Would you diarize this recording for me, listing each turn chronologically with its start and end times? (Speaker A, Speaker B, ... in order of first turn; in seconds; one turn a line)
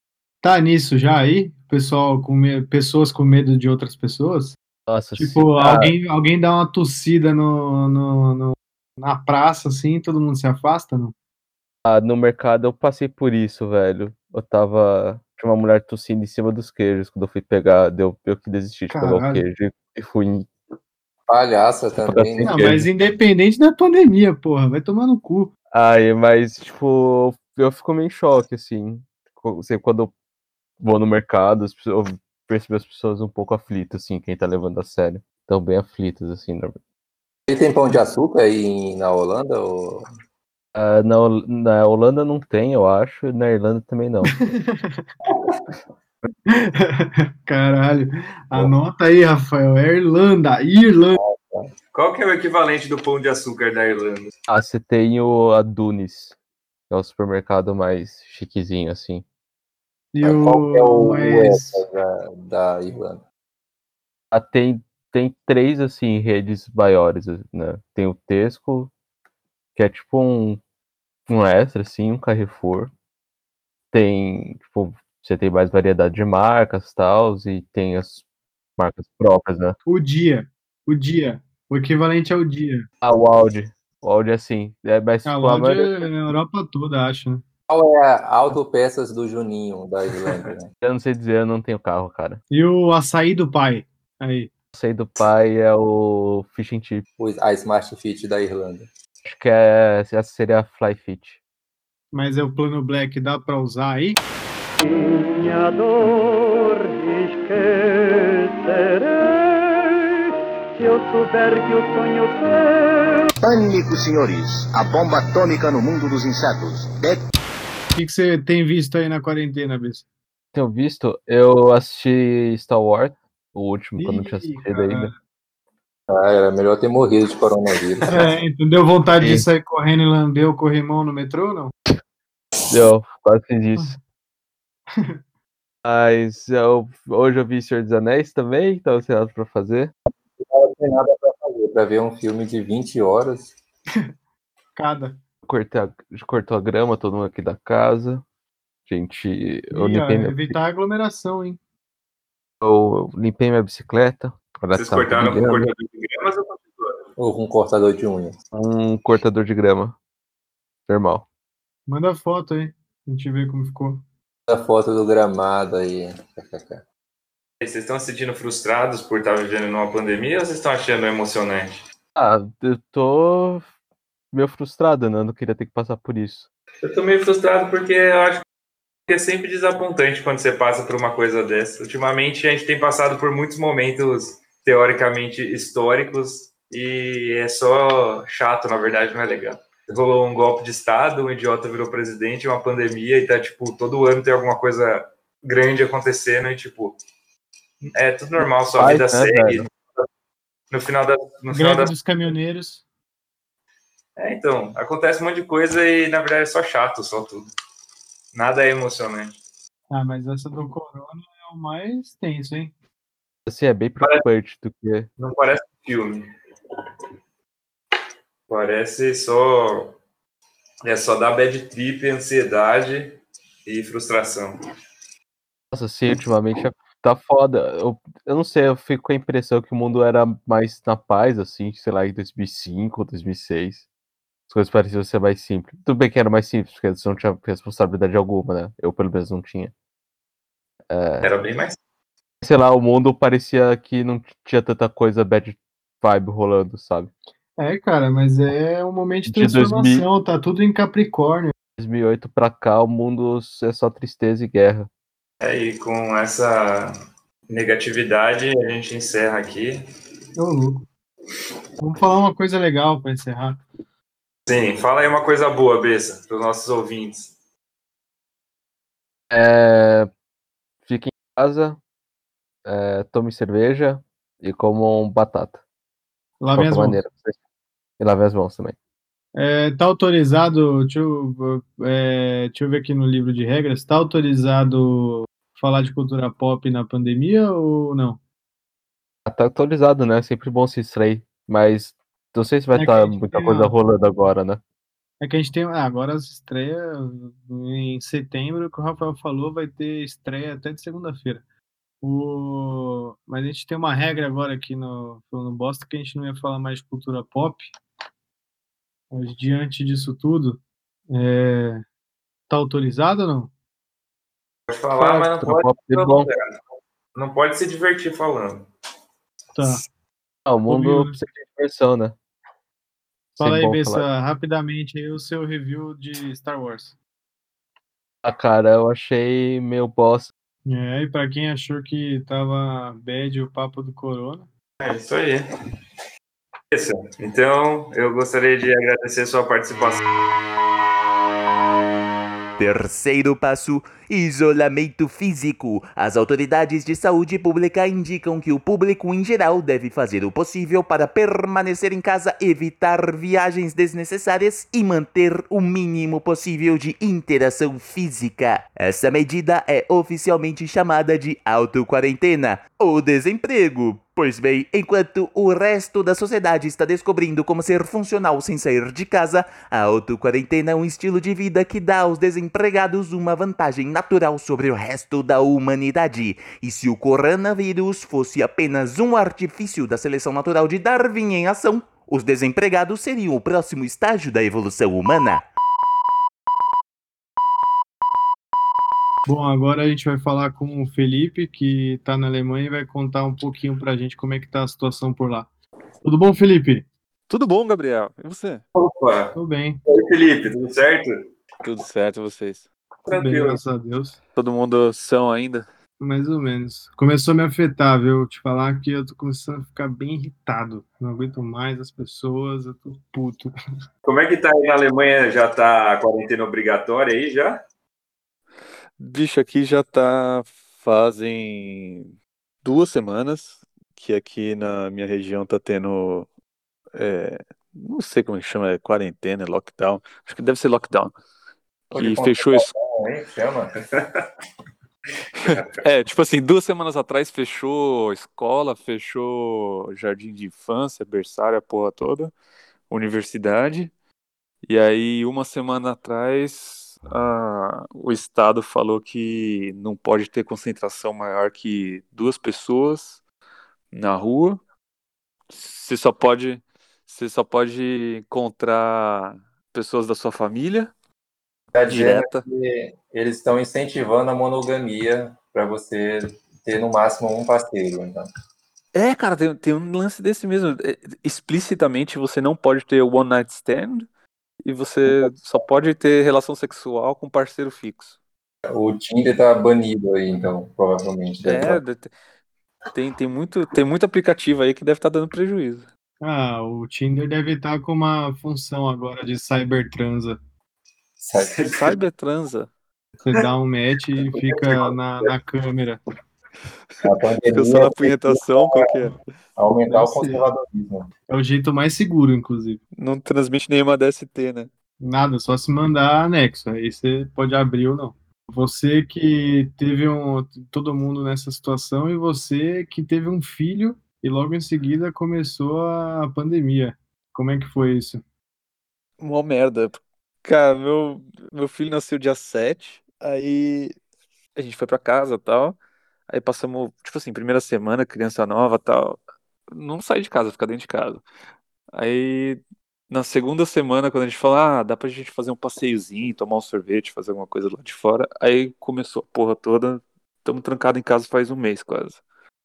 Speaker A: 0.4-4.5
Speaker B: 4.9-5.9
Speaker A: 5.2-11.1
Speaker B: 11.8-20.5
Speaker A: 18.9-19.4
Speaker C: 21.3-22.8
Speaker B: 22.0-22.9
Speaker A: 22.4-25.5
Speaker B: 25.7-30.1
Speaker B: 30.8-36.8
Speaker C: 37.5-40.0
Speaker B: 40.7-44.5
Speaker A: 44.4-45.0
Speaker A: 46.5-51.2
Speaker C: 51.2-51.7
Speaker D: 51.9-54.3
Speaker B: 54.5-56.4
Speaker B: 56.9-59.2
Speaker A: 60.1-61.8
Speaker C: 60.2-63.2
Speaker B: 64.3-68.9
Speaker B: 69.8-70.6
Speaker B: 71.3-72.9
Speaker B: 73.9-78.2
Speaker B: 78.8-79.8
Speaker A: 79.8-82.8
Speaker B: 83.0-86.1
Speaker A: 85.2-87.4
Speaker C: 87.7-90.7
Speaker B: 90.8-92.4
Speaker A: 92.5-94.5
Speaker B: 94.7-97.0
Speaker C: 97.2-98.9
Speaker B: 99.2-101.4
Speaker A: 102.1-104.2
Speaker E: 104.8-110.1
Speaker E: 110.7-113.3
Speaker F: 113.4-117.3
Speaker A: 118.0-120.0
Speaker B: 120.5-125.1
Speaker A: 124.0-125.1
Speaker C: 126.1-128.3
Speaker A: 128.1-131.7
Speaker B: 129.2-129.5
Speaker B: 132.7-134.0
Speaker B: 135.8-139.9
Speaker C: 140.4-143.5
Speaker A: 144.8-145.2
Speaker B: 145.4-148.2
Speaker B: 148.8-150.5
Speaker A: 149.7-151.6
Speaker B: 152.6-155.7
Speaker D: 154.7-157.0
Speaker C: 157.2-158.3
Speaker B: 158.5-160.0
Speaker B: 160.9-161.2
Speaker A: 161.9-164.0
Speaker C: 164.5-166.8
Speaker D: 167.6-171.8
Speaker B: 172.2-173.7
Speaker B: 174.3-176.5
Speaker D: 176.8-178.4
Speaker D: 179.1-197.0
Speaker D: 197.9-200.0
Speaker B: 198.4-199.6
Speaker D: 200.7-201.9
Speaker A: 201.5-202.8
Speaker D: 204.2-207.5
Speaker D: 208.3-209.3
Speaker A: 209.9-212.7
Speaker B: 213.5-215.1
Speaker D: 215.2-216.3
Speaker D: 218.5-220.0
Speaker D: 220.8-224.5
Speaker B: 225.7-233.9
Speaker B: 234.5-239.7
Speaker B: 240.9-241.3
Speaker D: 241.2-241.8
Speaker B: 242.4-247.1
Speaker A: 247.6-251.5
Speaker B: 249.2-250.1
Speaker B: 251.8-254.9
Speaker D: 255.4-256.9
Speaker D: 257.5-259.8
Speaker A: 260.4-260.9
Speaker A: 261.8-263.6
Speaker D: 264.5-267.3
Speaker B: 269.3-270.1
Speaker B: 270.8-271.8
Speaker B: 272.6-275.6
Speaker A: 276.4-277.0
Speaker B: 276.5-277.4
Speaker B: 278.0-278.8
Speaker A: 279.3-288.2
Speaker B: 289.2-294.6
Speaker A: 292.7-293.7
Speaker A: 295.2-301.4
Speaker A: 302.0-307.7
Speaker A: 309.1-310.6
Speaker A: 311.1-311.8
Speaker A: 312.5-313.5
Speaker D: 314.7-316.6
Speaker B: 314.9-316.3
Speaker D: 317.1-318.7
Speaker A: 319.6-319.8
Speaker B: 320.4-322.1
Speaker A: 320.7-321.2
Speaker A: 323.4-326.9
Speaker B: 323.4-324.1
Speaker B: 328.2-330.3
Speaker A: 330.6-334.5
Speaker D: 334.8-335.4
Speaker D: 336.7-340.0
Speaker G: 342.6-385.4
Speaker A: 389.2-395.5
Speaker A: 396.0-396.8
Speaker H: 397.3-398.6
Speaker D: 398.7-399.3
Speaker A: 399.3-399.8
Speaker D: 399.9-401.2
Speaker H: 401.6-402.7
Speaker D: 403.1-403.6
Speaker A: 403.1-404.2
Speaker H: 404.4-405.7
Speaker A: 406.0-413.5
Speaker D: 414.0-417.6
Speaker H: 419.0-422.1
Speaker H: 422.6-426.3
Speaker H: 426.9-431.1
Speaker C: 431.9-433.7
Speaker H: 431.9-432.7
Speaker H: 435.5-442.3
Speaker H: 442.9-443.9
Speaker H: 444.7-453.2
Speaker H: 453.9-454.6
Speaker H: 455.5-460.9
Speaker C: 461.7-468.3
Speaker H: 461.9-462.4
Speaker H: 468.9-474.1
Speaker H: 474.6-478.2
Speaker C: 478.7-481.8
Speaker H: 481.4-482.1
Speaker H: 482.9-485.9
Speaker A: 486.2-490.4
Speaker C: 491.2-491.6
Speaker D: 491.5-491.9
Speaker H: 491.8-492.7
Speaker A: 493.2-496.0
Speaker C: 497.0-498.8
Speaker H: 497.5-499.1
Speaker C: 499.6-501.1
Speaker A: 499.9-500.4
Speaker A: 501.3-502.8
Speaker H: 503.0-504.7
Speaker A: 505.0-518.2
Speaker H: 519.2-524.0
Speaker H: 524.5-525.8
Speaker H: 526.3-529.2
Speaker H: 529.7-531.2
Speaker H: 531.9-542.2